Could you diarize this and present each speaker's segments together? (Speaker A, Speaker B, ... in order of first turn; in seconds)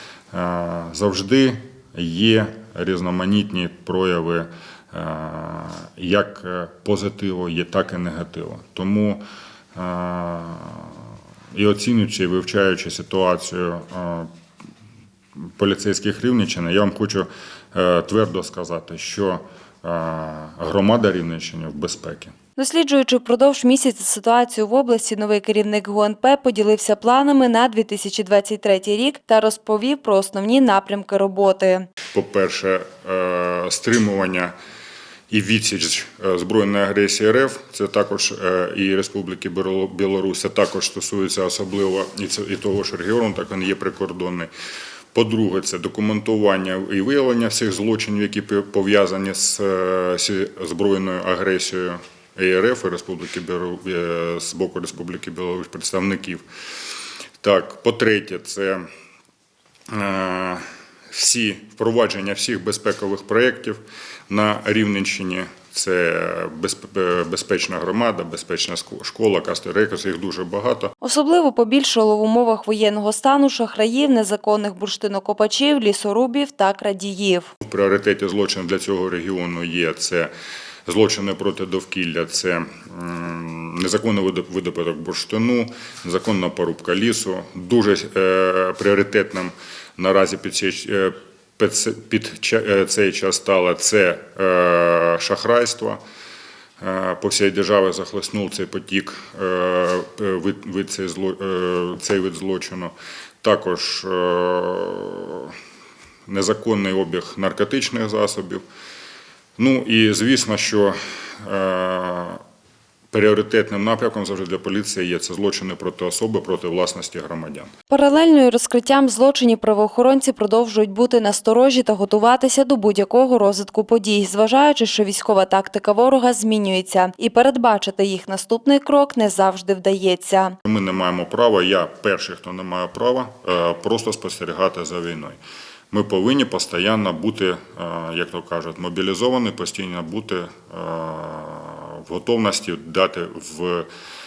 Speaker A: 0.3-9.2, 9.8-11.0, 11.5-14.3, 15.6-22.3, 32.1-34.5, 35.3-44.5, 45.1-56.4, 57.4-58.9, 59.9-70.9, 77.6-80.3, 80.9-96.0, 96.8-105.6, 106.3-108.6, 109.6-112.4, 113.1-117.7, 130.7-135.4, 135.9-143.9
Speaker B: 22.6-31.9, 71.0-77.5, 117.9-130.6